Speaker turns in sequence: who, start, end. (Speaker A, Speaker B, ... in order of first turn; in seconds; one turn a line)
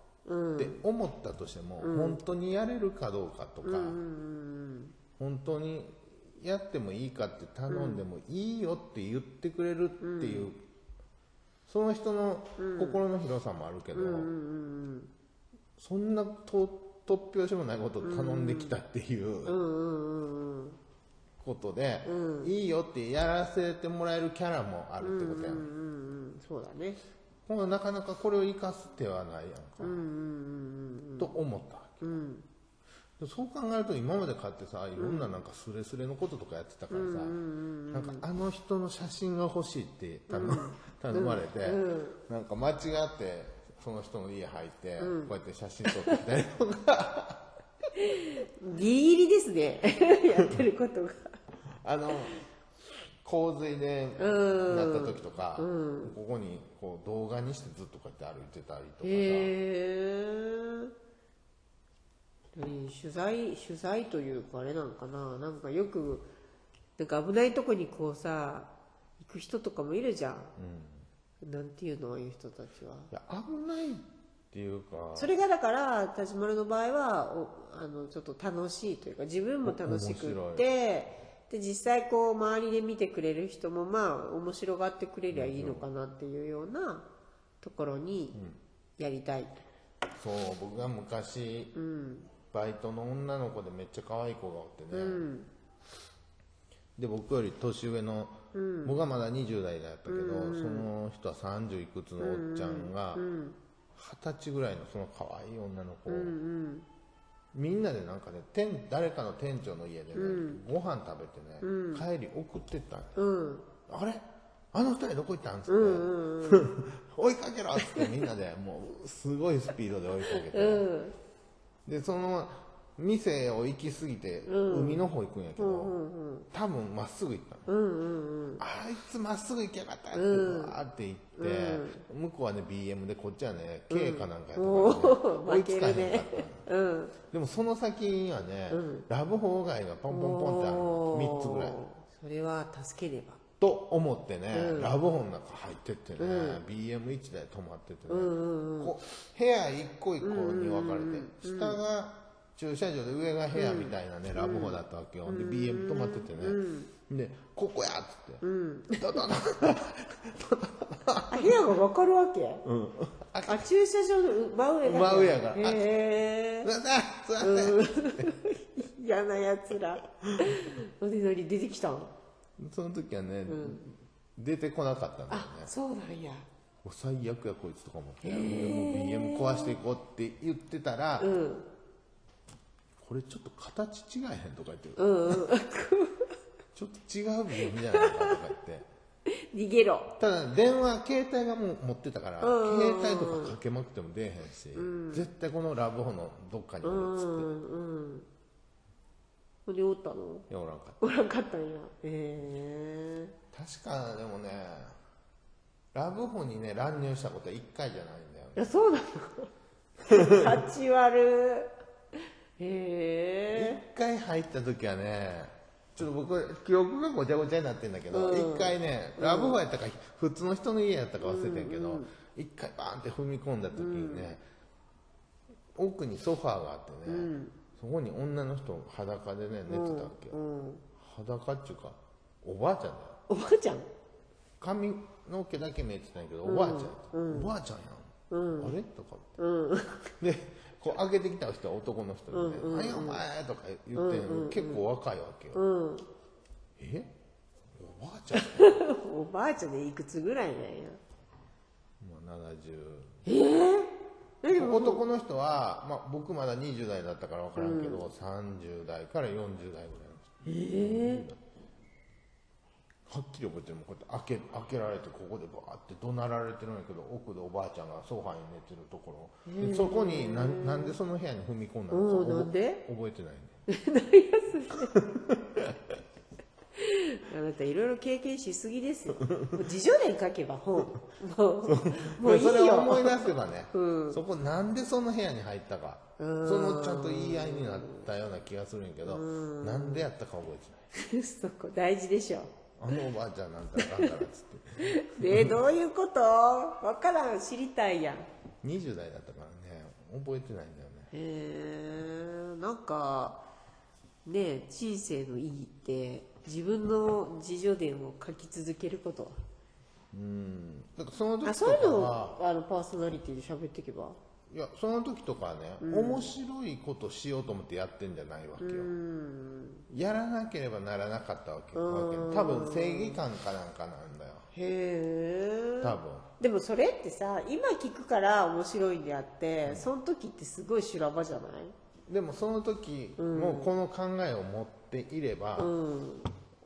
Speaker A: 0.2-0.8
Speaker B: 0.6-4.0
Speaker A: 1.8-2.2
Speaker A: 3.6-4.9
Speaker B: 5.2-10.6
Speaker A: 7.7-8.0
Speaker A: 10.0-10.5
Speaker B: 11.7-14.3
Speaker A: 12.6-13.0
Speaker A: 13.9-15.1
Speaker B: 15.8-19.6
Speaker A: 18.0-18.8
Speaker A: 19.4-20.8
Speaker B: 21.4-25.7
Speaker A: 22.0-22.5
Speaker A: 25.0-27.0
Speaker B: 27.4-30.0
Speaker A: 29.8-31.4
Speaker B: 31.2-32.2
Speaker A: 32.0-32.4
Speaker B: 33.2-37.4
Speaker A: 35.0-35.3
Speaker A: 36.9-38.2
Speaker B: 37.9-47.4
Speaker A: 40.3-42.2
Speaker A: 45.0-45.4
Speaker A: 45.9-46.2
Speaker A: 48.0-51.3
Speaker B: 51.8-52.5
Speaker B: 53.2-59.5
Speaker A: 54.2-56.1
Speaker A: 59.0-60.9
Speaker A: 62.5-66.3
Speaker A: 67.0-70.5
Speaker B: 70.5-71.0
Speaker A: 71.4-73.1
Speaker B: 73.1-75.3
Speaker A: 75.1-87.1
Speaker B: 79.6-80.7
Speaker B: 85.3-85.9
Speaker A: 87.6-88.4
Speaker B: 88.3-88.6
Speaker A: 89.0-89.6
Speaker B: 90.2-91.7
Speaker A: 91.7-92.3
Speaker B: 92.5-95.3
Speaker A: 94.9-95.5
Speaker B: 97.0-103.2
Speaker A: 98.5-99.0
Speaker A: 100.0-100.9
Speaker A: 102.2-103.6
Speaker B: 103.9-106.3
Speaker A: 106.1-106.8
Speaker B: 107.5-113.2
Speaker A: 110.1-110.6
Speaker A: 111.6-112.1
Speaker A: 113.2-113.7
Speaker B: 113.9-120.9
Speaker A: 115.7-116.7
Speaker A: 117.8-118.1
Speaker A: 120.3-121.1
Speaker B: 121.8-126.0
Speaker A: 124.5-126.5
Speaker B: 126.5-127.7
Speaker A: 127.7-128.6
Speaker B: 128.6-136.7
Speaker A: 130.1-130.8
Speaker A: 131.4-132.0
Speaker A: 133.9-137.2
Speaker B: 137.3-141.8
Speaker A: 138.7-139.1
Speaker A: 140.1-143.4
Speaker B: 143.6-158.4
Speaker A: 144.5-145.0
Speaker A: 146.2-146.6
Speaker A: 148.1-148.9
Speaker A: 150.2-151.8
Speaker A: 153.5-156.9
Speaker A: 158.4-159.2
Speaker B: 159.0-161.6
Speaker A: 161.3-162.7
Speaker B: 162.6-163.6
Speaker A: 163.4-166.7
Speaker B: 164.8-166.0
Speaker B: 166.6-168.4
Speaker A: 167.4-172.1
Speaker B: 172.6-175.7
Speaker A: 173.4-173.8
Speaker A: 175.3-176.5
Speaker B: 176.8-181.3
Speaker A: 178.2-179.8
Speaker A: 181.2-181.7
Speaker B: 183.0-185.5
Speaker A: 185.0-186.3
Speaker B: 186.7-188.9
Speaker A: 187.5-188.4
Speaker A: 189.3-190.1
Speaker B: 190.2-197.5
Speaker A: 192.4-193.6
Speaker A: 194.7-195.3
Speaker A: 196.8-198.3
Speaker A: 199.7-200.5
Speaker B: 200.5-201.0
Speaker A: 201.0-203.3
Speaker B: 203.5-204.9
Speaker B: 205.9-208.7
Speaker A: 208.6-209.5
Speaker A: 210.0-211.7
Speaker B: 210.1-210.6
Speaker A: 212.6-213.8
Speaker B: 213.5-224.4
Speaker A: 218.1-219.6
Speaker A: 221.2-222.1
Speaker A: 223.7-224.3
Speaker B: 225.8-230.4
Speaker A: 227.1-227.5
Speaker A: 229.7-230.8
Speaker B: 231.0-233.2
Speaker A: 233.3-233.9
Speaker B: 234.6-239.3
Speaker A: 236.4-237.5
Speaker A: 238.3-238.8
Speaker A: 239.4-240.1
Speaker B: 240.2-245.6
Speaker A: 242.3-243.2
Speaker A: 243.9-244.9
Speaker A: 245.5-246.1
Speaker B: 246.8-247.1
Speaker B: 247.8-248.9
Speaker A: 248.3-251.0
Speaker B: 252.0-253.2
Speaker A: 253.2-255.1
Speaker B: 254.5-261.4
Speaker A: 257.6-258.1
Speaker A: 260.4-261.2
Speaker B: 263.1-273.6
Speaker A: 269.4-271.0
Speaker A: 271.9-272.9
Speaker A: 273.7-275.0
Speaker B: 274.9-275.7
Speaker A: 276.8-284.2
Speaker B: 281.6-290.8
Speaker A: 286.2-288.1
Speaker A: 289.0-290.1
Speaker A: 290.9-292.5
Speaker B: 292.8-295.6
Speaker A: 293.8-294.2
Speaker A: 294.8-298.3
Speaker B: 298.6-301.1
Speaker A: 301.1-303.4
Speaker A: 304.2-309.4
Speaker B: 310.1-312.4
Speaker A: 311.4-314.2
Speaker B: 314.5-318.9
Speaker A: 315.8-316.3
Speaker A: 318.6-319.8
Speaker B: 319.9-324.5
Speaker A: 321.7-323.2
Speaker A: 324.5-331.7
Speaker B: 325.8-326.3
Speaker B: 329.6-329.9
Speaker B: 332.1-335.7
Speaker A: 333.2-333.7
Speaker A: 335.6-336.3